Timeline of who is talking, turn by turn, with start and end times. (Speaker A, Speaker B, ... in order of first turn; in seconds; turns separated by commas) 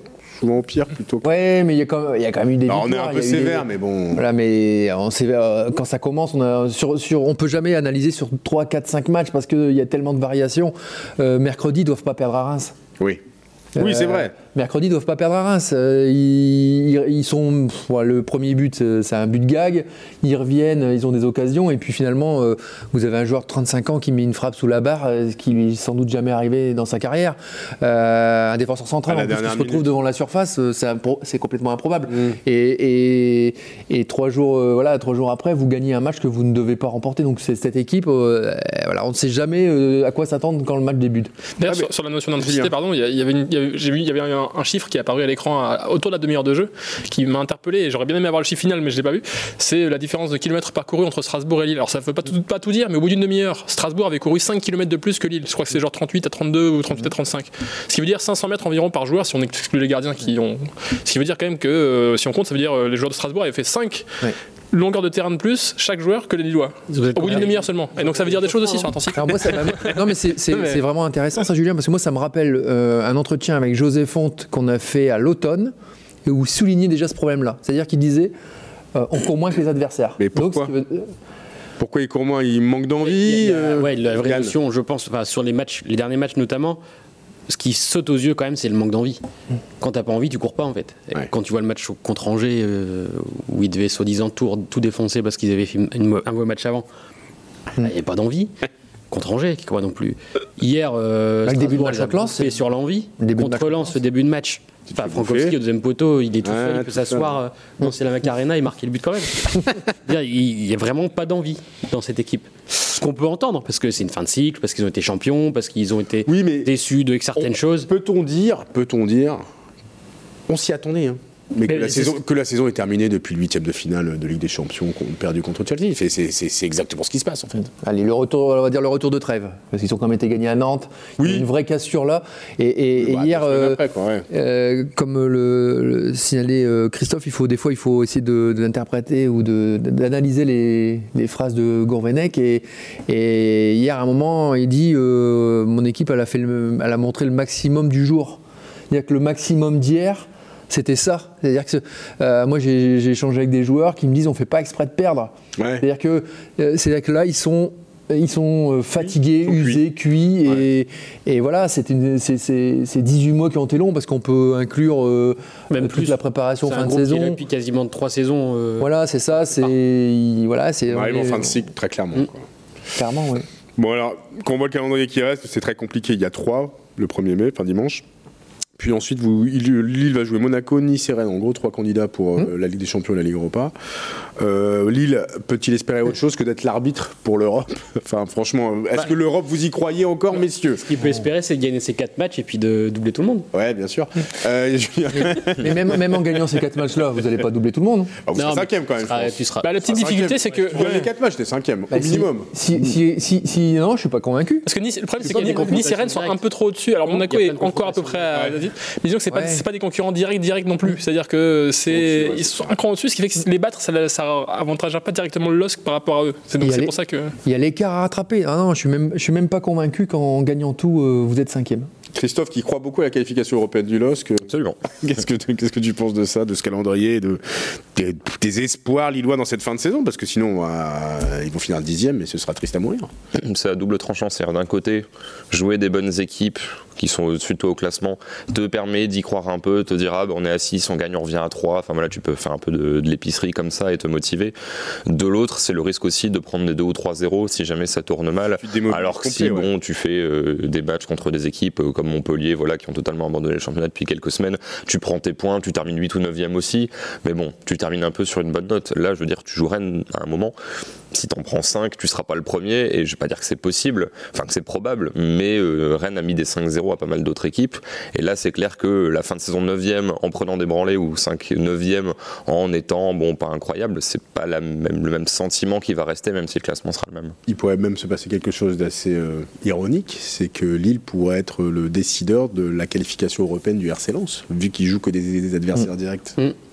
Speaker A: 0.4-1.3, Speaker B: 1.2-12.8, Speaker A: 2.7-4.2, Speaker B: 13.8-41.3, Speaker A: 13.8-14.3, Speaker A: 29.1-29.9, Speaker A: 32.1-32.4, Speaker C: 41.6-70.8, Speaker A: 41.7-42.7, Speaker D: 66.9-69.0, Speaker B: 69.1-75.7, Speaker B: 76.2-78.3, Speaker B: 78.9-81.1, Speaker A: 80.2-80.7, Speaker A: 81.8-84.5, Speaker D: 83.0-86.8, Speaker D: 87.5-89.2, Speaker D: 89.8-96.9, Speaker D: 97.8-98.5, Speaker D: 99.1-117.9, Speaker B: 101.5-102.6, Speaker B: 103.2-104.0, Speaker A: 105.0-105.6, Speaker A: 106.4-107.4, Speaker A: 116.3-116.7, Speaker A: 117.4-119.4, Speaker A: 120.5-127.7, Speaker D: 121.7-122.0, Speaker C: 121.7-122.1, Speaker B: 127.8-167.4, Speaker A: 131.2-131.5, Speaker A: 133.0-134.3, Speaker A: 155.6-155.8, Speaker A: 159.4-159.8, Speaker D: 165.7-168.9, Speaker B: 168.8-171.7, Speaker A: 170.9-172.4, Speaker B: 172.9-173.5, Speaker A: 173.8-178.0, Speaker A: 178.8-183.7, Speaker A: 184.4-190.8, Speaker D: 190.8-193.5, Speaker A: 193.5-196.2, Speaker B: 195.1-198.2, Speaker A: 198.3-202.5, Speaker D: 198.3-199.7, Speaker C: 199.6-201.1, Speaker B: 201.9-204.7, Speaker C: 204.7-217.3, Speaker D: 205.2-206.4, Speaker D: 207.1-208.5, Speaker B: 209.3-209.6, Speaker A: 211.9-212.7, Speaker B: 216.6-221.9, Speaker A: 222.2-233.1, Speaker E: 224.5-224.8, Speaker E: 233.3-244.5, Speaker E: 245.1-260.6, Speaker A: 248.6-249.7, Speaker E: 261.1-277.4, Speaker A: 277.5-286.4